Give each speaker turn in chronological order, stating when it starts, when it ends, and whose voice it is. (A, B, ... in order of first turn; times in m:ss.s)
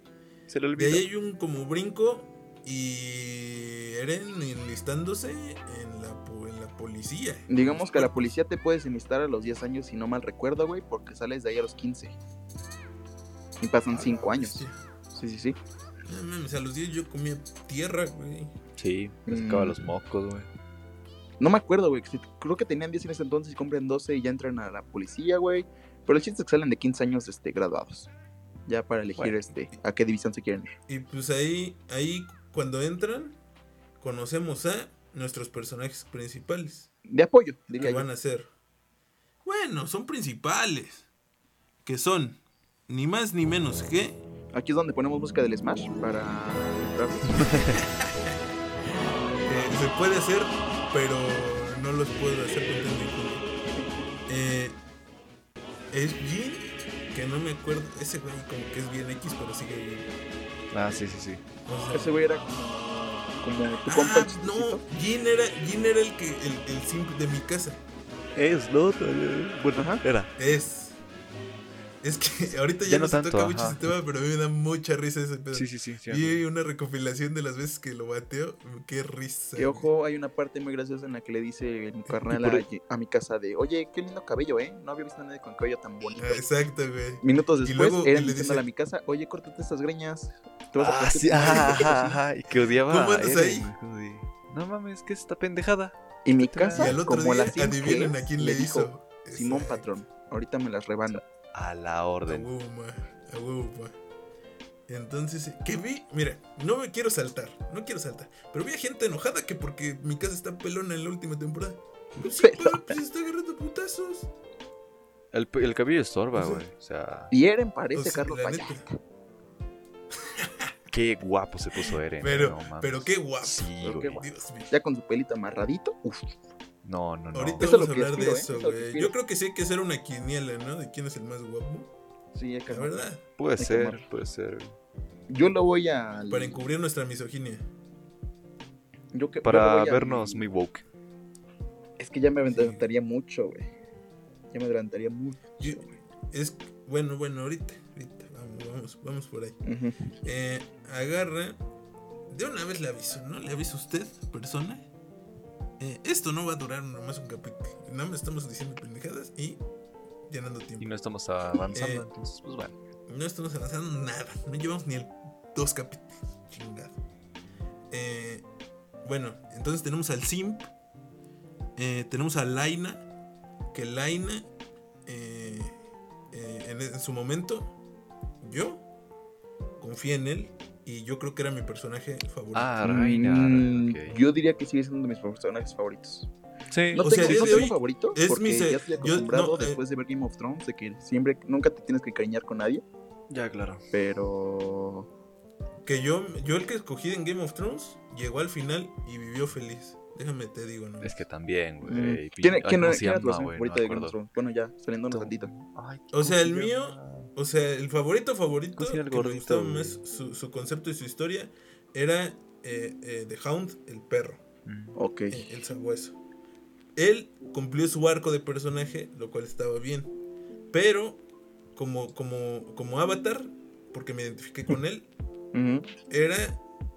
0:00.5-0:01.0 A
0:00.8-0:08.1 B
0:07.5-0:12.2 C
0:13.6-0:15.6 C
0:13.9-0:14.8 B
0:16.0-0:18.5 B
0:18.8-0:20.5 A
0:19.3-0:19.7 C
0:21.4-0:28.1 C
0:28.7-0:30.7 C
0:29.2-0:29.4 A
0:30.9-0:33.4 B
0:34.0-0:36.9 B
0:37.1-0:38.1 C
0:37.7-0:38.5 B
0:39.4-0:41.1 B
0:41.8-0:44.2 B
0:44.5-0:47.7 C
0:47.4-0:47.8 A
0:48.0-0:48.4 B
0:49.4-0:53.5 B
0:54.3-0:54.8 B
0:55.9-1:00.1 B
1:00.7-1:01.4 A
1:01.6-1:02.2 B
1:01.9-1:04.8 C
1:03.7-1:07.8 B
1:08.3-1:10.3 A
1:09.7-1:10.0 C
1:10.4-1:11.0 B
1:12.0-1:19.9 B
1:12.8-1:13.8 A
1:15.5-1:16.4 A
1:19.6-1:26.4 C
1:22.3-1:22.6 A
1:26.2-1:28.6 B
1:27.2-1:32.2 C
1:30.8-1:37.0 A
1:31.4-1:31.8 B
1:32.8-1:33.7 B
1:36.2-1:41.2 C
1:36.7-1:39.9 B
1:41.5-1:42.5 A
1:42.2-1:44.0 B
1:44.9-1:54.3 B
1:52.2-1:52.9 C
1:55.3-1:57.3 A
1:57.3-1:59.0 C
1:57.9-1:58.8 B
2:00.2-2:00.7 B
2:00.9-2:04.2 A
2:02.2-2:04.7 B
2:03.8-2:06.4 C
2:06.8-2:07.7 A
2:07.3-2:11.9 B
2:07.6-2:09.1 C
2:12.3-2:13.0 C
2:12.7-2:13.2 B
2:13.4-2:14.7 A
2:13.6-2:14.0 C
2:15.3-2:16.6 C
2:16.3-2:17.6 B
2:19.1-2:20.4 C
2:19.4-2:20.8 A
2:22.0-2:23.7 C
2:22.4-2:22.8 B
2:24.5-2:26.0 C
2:25.6-2:29.6 B
2:29.6-2:30.1 C
2:30.2-2:31.6 B
2:32.3-2:34.9 B
2:35.8-2:39.6 B
2:40.3-2:40.9 B
2:40.8-2:42.8 A
2:41.7-2:42.1 B
2:43.1-2:47.0 B
2:47.9-2:48.4 B
2:49.0-2:50.7 B
2:51.8-2:53.1 B
2:53.7-2:54.5 B
2:55.0-2:55.8 B
2:56.3-2:57.7 B
2:58.4-2:58.8 B
2:59.8-3:02.7 B
3:02.5-3:04.1 A
3:02.8-3:06.3 C
3:06.7-3:07.7 A
3:06.9-3:12.8 C
3:07.0-3:09.8 B
3:13.3-3:13.8 A
3:13.9-3:15.1 C
3:15.8-3:21.2 B
3:21.0-3:24.2 A
3:21.8-3:25.5 C
3:25.1-3:27.3 A
3:26.1-3:34.4 B
3:28.8-3:30.0 A
3:34.6-3:35.0 A
3:35.0-3:35.4 C
3:35.3-3:36.2 B
3:37.0-3:40.1 B
3:40.7-3:41.2 B
3:41.7-3:45.1 B
3:45.5-3:45.9 C
3:46.1-3:46.6 B